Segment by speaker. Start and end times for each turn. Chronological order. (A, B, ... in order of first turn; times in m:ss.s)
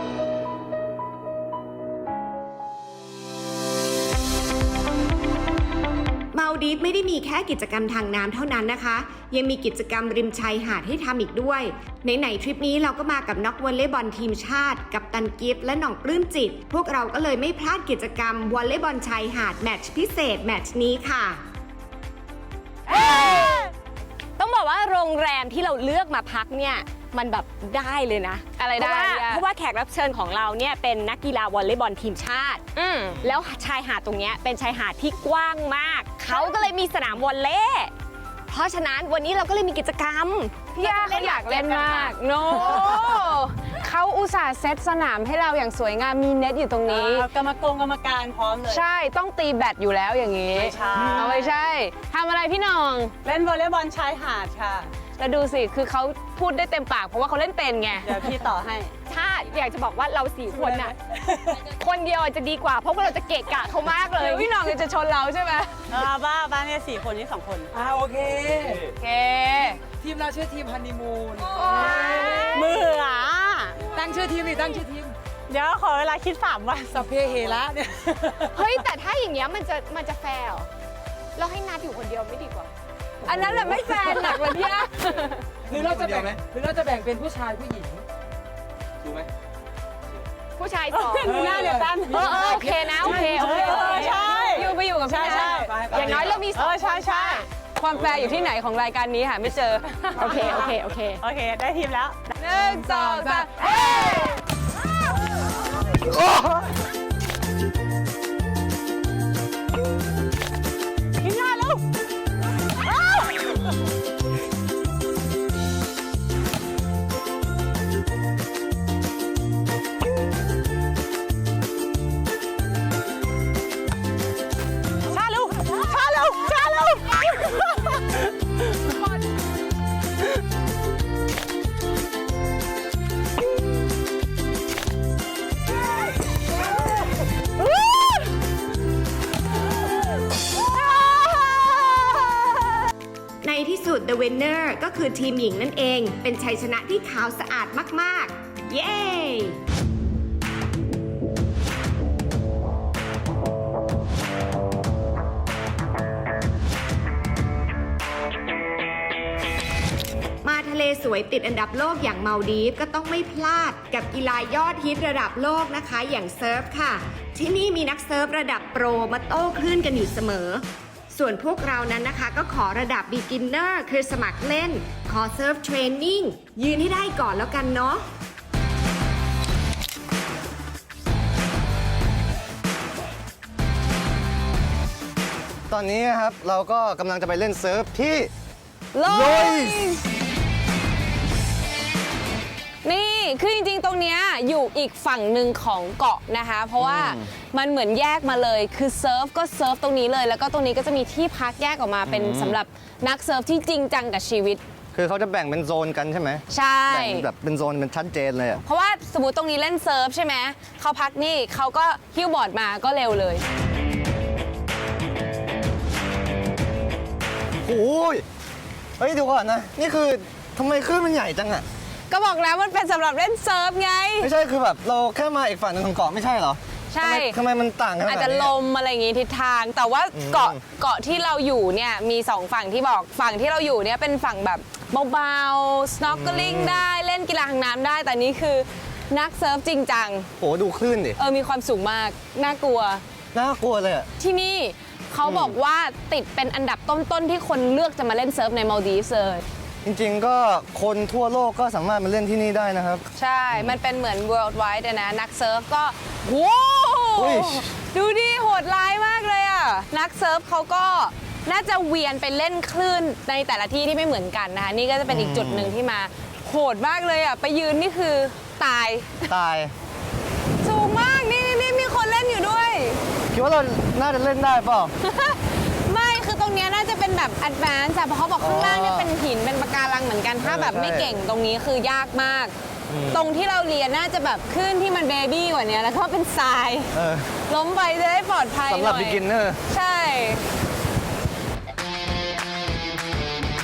0:06.3-0:21.4 A
0:22.9-0:23.5 B
0:22.9-0:23.4 A
0:24.4-0:32.6 B
0:28.6-0:29.4 C
0:32.7-0:33.3 C
0:33.2-0:37.9 B
0:36.2-0:36.7 C
0:38.5-0:42.1 B
0:40.8-0:47.3 C
0:46.9-0:48.8 D
0:48.7-0:53.1 C
0:50.5-0:51.5 D
0:53.2-0:54.9 D
0:55.2-0:58.1 C
0:58.0-0:58.9 D
0:59.1-1:04.5 B
1:04.1-1:05.8 C
1:05.9-1:07.7 D
1:07.7-1:08.8 E
1:09.0-1:09.8 C
1:10.0-1:12.8 E
1:11.6-1:12.6 B
1:11.6-1:12.5 C
1:12.4-1:13.8 D
1:13.8-1:15.1 E
1:15.5-1:17.6 D
1:16.9-1:18.9 E
1:18.5-1:20.7 B
1:21.4-1:22.7 B
1:23.2-1:25.4 C
1:23.4-1:24.4 E
1:25.6-1:28.0 E
1:25.8-1:26.3 F
1:30.6-1:33.6 B
1:30.9-1:37.5 D
1:31.2-1:34.5 E
1:33.6-1:33.9 A
1:34.5-1:35.6 C
1:35.3-1:36.4 E
1:35.9-1:37.5 B
1:37.8-1:40.5 C
1:40.2-1:41.2 B
1:40.2-1:42.2 D
1:42.3-1:44.4 C
1:42.5-1:43.5 E
1:43.8-1:44.3 D
1:51.2-1:51.8 D
1:52.8-1:53.5 D
2:05.1-2:07.8 D
2:23.4-2:29.6 A
2:40.4-2:58.0 A
3:05.7-3:08.3 F
3:08.9-3:10.0 C
3:09.0-3:09.8 F
3:12.8-3:24.6 C
3:16.8-3:17.3 F
3:22.0-3:22.6 F
3:24.9-3:28.6 F
3:26.5-3:27.3 C
3:28.6-3:33.4 C
3:37.6-3:38.2 F
3:39.0-3:41.6 F
3:42.1-3:44.3 C
3:44.2-3:48.5 F
3:46.9-3:47.4 C
3:48.0-4:00.3 C
3:50.1-3:50.6 F
3:56.1-3:56.8 F
4:00.4-4:01.2 F
4:01.2-4:03.0 C
4:03.3-4:04.1 F
4:04.2-4:09.4 C
4:05.2-4:05.6 F
4:09.8-4:13.8 F
4:13.1-4:29.3 C
4:17.2-4:17.6 F
4:25.1-4:25.8 F
4:29.3-4:29.7 F
4:30.6-4:33.0 C
4:33.3-4:34.9 F
4:35.0-4:42.5 C
4:38.4-4:39.1 F
4:40.4-4:41.1 F
4:42.9-4:43.3 F
4:43.1-4:46.9 C
4:46.9-4:47.3 F
4:47.5-4:50.4 C
4:48.7-4:49.6 F